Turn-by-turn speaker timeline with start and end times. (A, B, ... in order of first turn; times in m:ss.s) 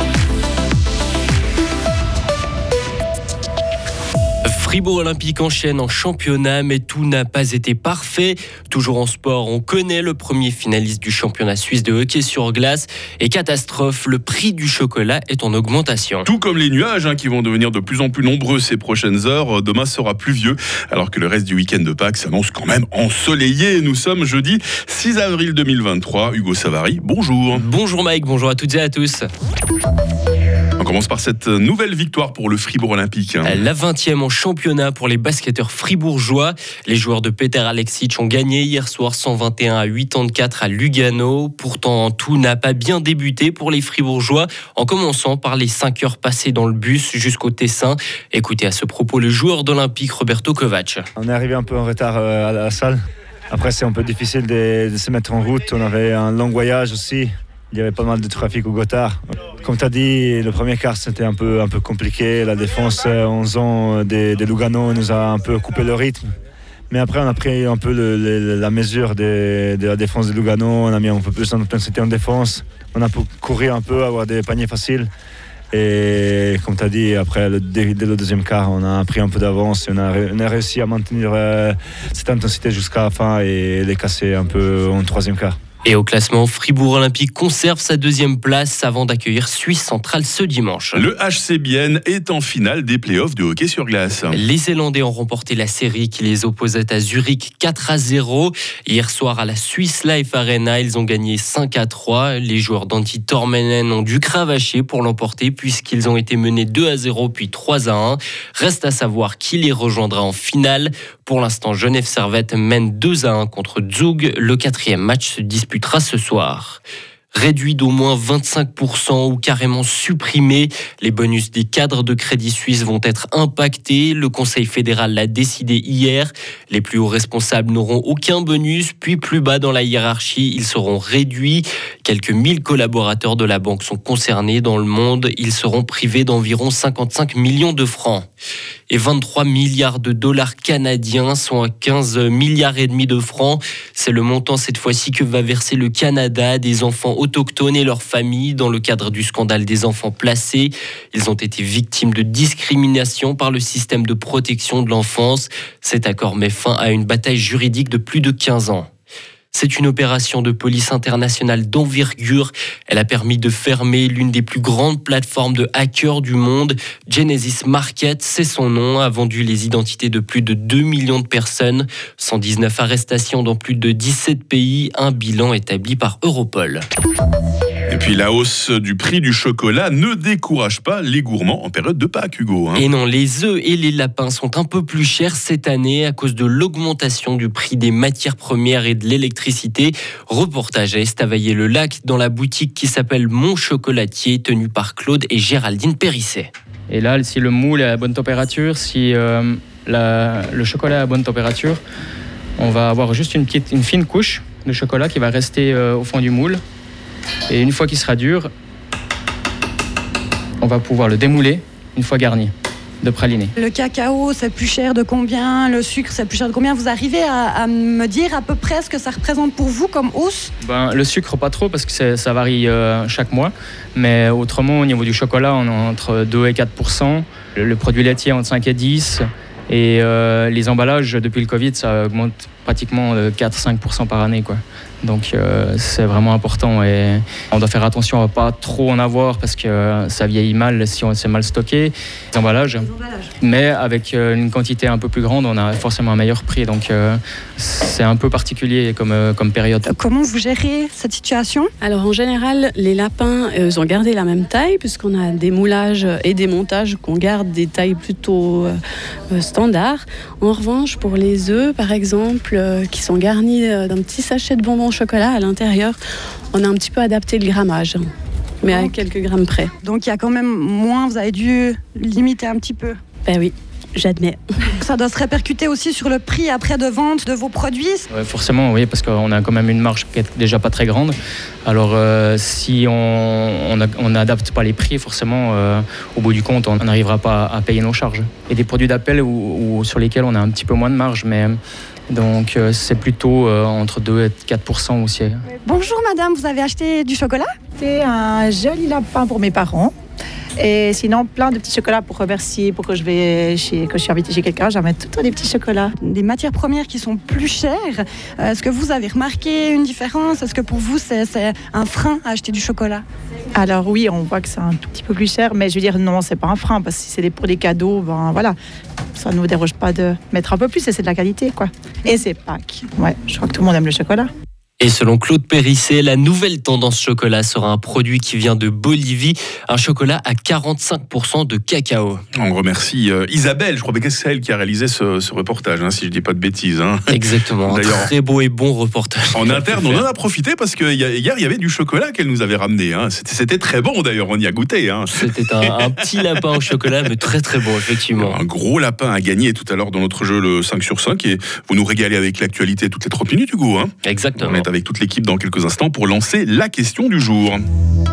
0:04.4-0:16.3 A
0:16.3-0:27.7 B
0:27.5-0:29.3 A
0:30.8-0:33.6 B
0:33.4-0:51.1 A
0:51.2-0:53.0 C
0:53.5-1:06.3 C
1:06.9-1:15.1 C
1:15.7-1:25.6 C
1:25.8-1:31.1 A
1:30.9-1:34.4 B
1:34.3-1:56.8 A
1:57.3-2:18.3 A
2:18.9-2:38.9 A
2:39.5-2:56.8 A
2:57.9-3:02.9 B
3:02.7-3:16.5 A
3:16.9-3:21.8 D
3:22.6-3:26.6 D
3:27.5-3:28.5 D
3:30.6-3:33.5 D
3:33.6-3:40.5 E
3:40.6-4:09.9 D
4:09.9-4:11.7 E
4:11.8-4:18.8 F
4:19.3-4:26.0 F
4:26.5-4:28.1 F
4:28.6-4:29.7 F
4:28.8-4:29.1 E
4:29.8-4:33.0 E
4:33.3-4:34.4 F
4:34.8-4:38.1 E
4:38.1-4:51.6 D
4:52.1-4:55.4 D
4:55.6-4:57.5 E
4:57.8-4:59.9 G
5:00.6-5:05.9 G
5:06.0-5:13.0 E
5:13.6-5:18.6 G
5:19.2-5:24.3 G
5:24.8-5:32.2 A
5:32.3-5:38.1 B
5:37.1-5:40.1 A
5:39.3-5:46.3 B
5:45.1-5:48.4 A
5:48.1-5:57.6 B
5:54.0-5:54.6 A